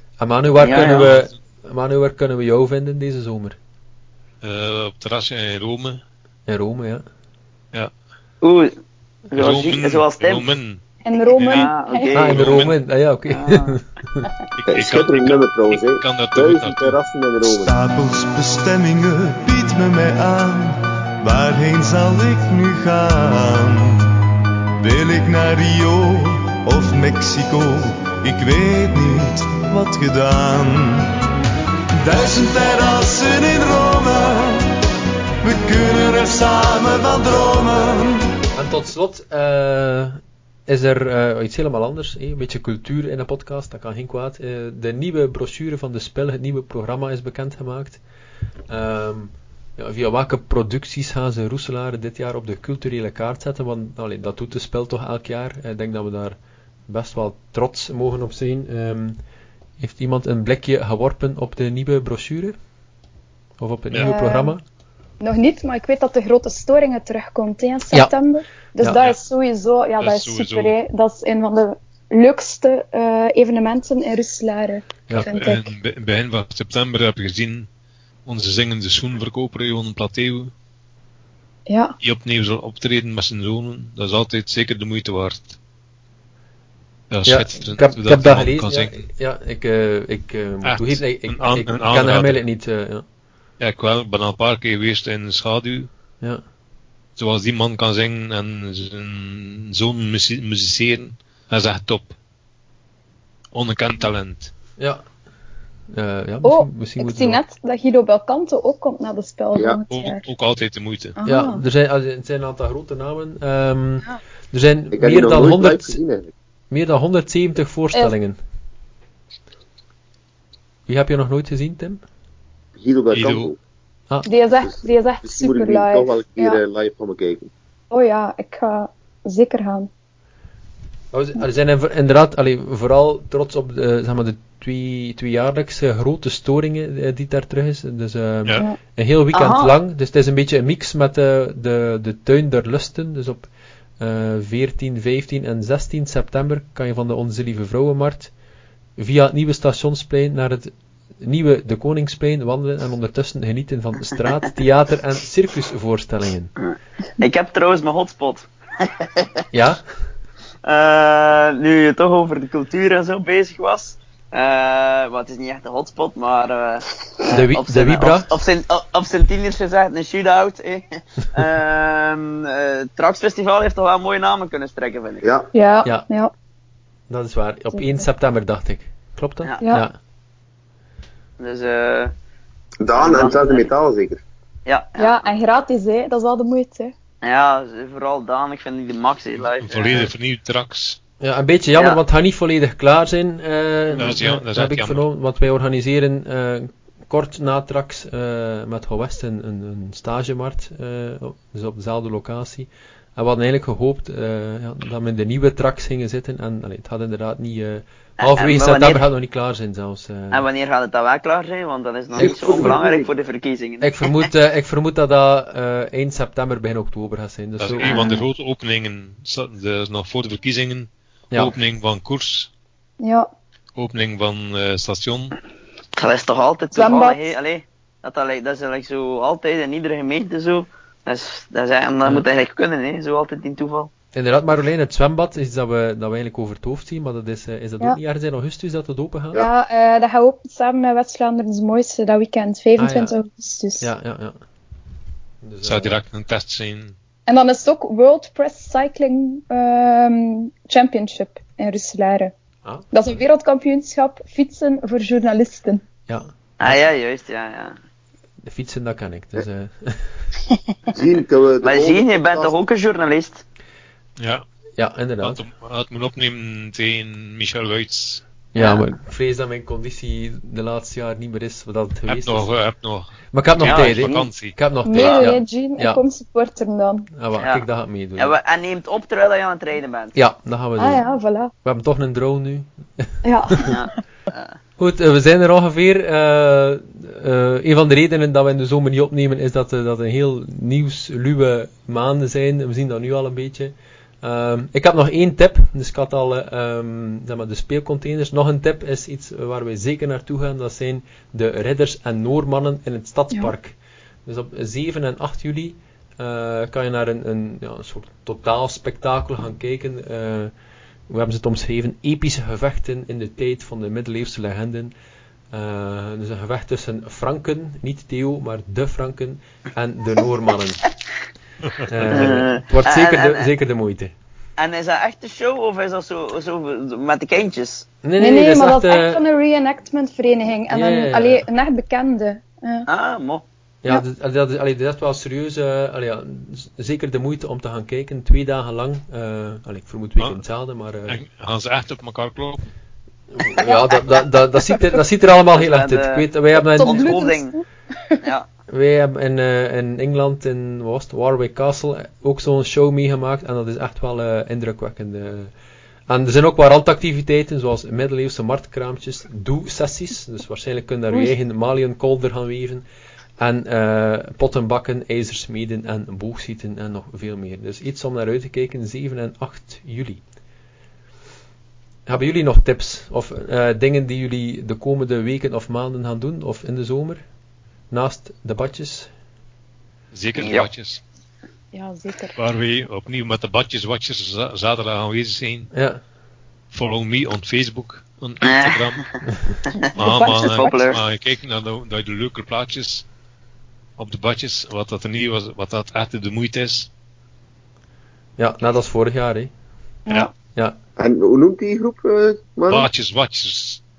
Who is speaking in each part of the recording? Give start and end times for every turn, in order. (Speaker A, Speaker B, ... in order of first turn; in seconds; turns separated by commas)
Speaker A: 0.2-3.6, Speaker B: 0.6-1.2, Speaker C: 0.7-1.2, Speaker C: 4.4-6.0, Speaker A: 6.5-7.0, Speaker B: 8.4-8.7, Speaker B: 9.3-10.4, Speaker C: 9.3-10.8, Speaker D: 11.0-12.2, Speaker C: 11.3-11.7, Speaker B: 11.3-12.6, Speaker A: 12.1-14.3, Speaker C: 12.3-12.7, Speaker B: 13.3-13.7, Speaker C: 14.6-16.9, Speaker E: 14.7-17.7, Speaker F: 17.5-24.1, Speaker F: 24.8-31.1, Speaker F: 32.0-34.8, Speaker F: 35.4-38.3, Speaker A: 38.5-48.0, Speaker A: 48.7-56.4, Speaker A: 56.9-59.2, Speaker A: 59.8-62.5, Speaker A: 63.6-64.6, Speaker D: 64.0-64.5, Speaker D: 65.2-75.7, Speaker C: 70.0-70.7, Speaker A: 75.1-75.3, Speaker C: 75.2-77.7, Speaker C: 78.2-80.5, Speaker D: 81.7-81.9, Speaker C: 82.0-85.6, Speaker C: 87.1-89.0, Speaker A: 87.2-93.0, Speaker C: 90.6-92.4, Speaker C: 93.6-95.9, Speaker C: 97.2-102.1, Speaker C: 103.5-104.5, Speaker A: 105.9-107.4, Speaker D: 106.4-110.2, Speaker C: 109.9-111.2, Speaker D: 111.2-111.6, Speaker A: 111.2-116.0, Speaker E: 114.9-116.3, Speaker A: 116.7-118.4, Speaker A: 120.9-122.0, Speaker E: 122.8-123.6, Speaker C: 123.1-123.5, Speaker D: 124.2-126.6, Speaker E: 124.6-127.5, Speaker D: 127.9-129.9, Speaker A: 131.1-143.5, Speaker B: 139.3-139.7, Speaker A: 144.0-148.3, Speaker A: 149.0-156.5, Speaker B: 156.6-159.4, Speaker A: 159.5-159.8, Speaker B: 160.6-175.2, Speaker A: 167.3-168.3, Speaker E: 175.2-175.5, Speaker D: 175.5-176.3, Speaker A: 177.1-179.9, Speaker B: 181.4-182.1, Speaker E: 182.8-184.2, Speaker B: 182.9-183.7, Speaker B: 184.7-185.3, Speaker D: 185.0-186.9, Speaker B: 187.2-190.1, Speaker C: 189.6-191.0, Speaker A: 191.2-210.4, Speaker C: 193.9-195.0, Speaker B: 208.2-209.1, Speaker B: 210.3-214.1, Speaker A: 212.1-212.8, Speaker E: 212.2-213.0, Speaker A: 213.8-218.1, Speaker C: 217.6-222.5, Speaker D: 217.8-218.2, Speaker D: 223.0-223.3, Speaker C: 223.7-225.4, Speaker B: 225.9-233.9, Speaker D: 226.7-227.2, Speaker A: 234.1-239.4, Speaker D: 239.3-243.9, Speaker A: 242.8-243.1, Speaker A: 243.8-244.4, Speaker A: 245.4-246.0, Speaker C: 245.6-246.9, Speaker D: 247.3-252.3, Speaker A: 252.6-253.2, Speaker D: 252.9-255.8, Speaker A: 256.1-256.8, Speaker B: 256.6-257.8, Speaker A: 258.4-260.2, Speaker E: 260.9-262.5, Speaker B: 261.6-263.4, Speaker C: 264.2-264.4, Speaker A: 264.8-265.4, Speaker C: 265.2-268.2, Speaker A: 268.5-272.5, Speaker B: 268.6-268.8, Speaker C: 272.1-274.6, Speaker A: 273.3-276.0, Speaker B: 273.6-274.2, Speaker D: 274.9-277.1, Speaker A: 277.1-278.4, Speaker B: 277.4-277.6, Speaker B: 278.2-280.1, Speaker A: 280.1-281.0, Speaker D: 280.8-281.5, Speaker A: 281.6-283.1, Speaker D: 283.2-283.8, Speaker B: 283.6-284.6, Speaker A: 284.8-310.5, Speaker A: 311.1-314.9, Speaker A: 315.5-320.8, Speaker A: 321.9-324.1, Speaker B: 322.1-323.5, Speaker B: 324.6-327.9, Speaker A: 328.0-329.2, Speaker D: 328.2-332.9, Speaker A: 330.7-331.4, Speaker B: 332.9-333.4, Speaker A: 333.8-341.2, Speaker C: 341.1-342.6, Speaker A: 343.3-347.2, Speaker B: 345.4-347.6, Speaker D: 346.8-347.6, Speaker A: 348.7-355.5, Speaker A: 356.1-362.8, Speaker A: 363.4-370.2, Speaker A: 372.1-377.2, Speaker A: 377.9-379.1, Speaker C: 380.1-381.0, Speaker B: 380.4-380.7, Speaker D: 381.7-382.4, Speaker C: 382.4-385.7, Speaker A: 385.7-386.0, Speaker C: 386.7-389.1, Speaker B: 388.4-389.1, Speaker B: 389.8-391.0, Speaker D: 389.9-390.8, Speaker C: 389.9-393.1, Speaker C: 394.0-396.9, Speaker A: 398.4-399.5, Speaker E: 401.0-402.9, Speaker C: 402.7-403.8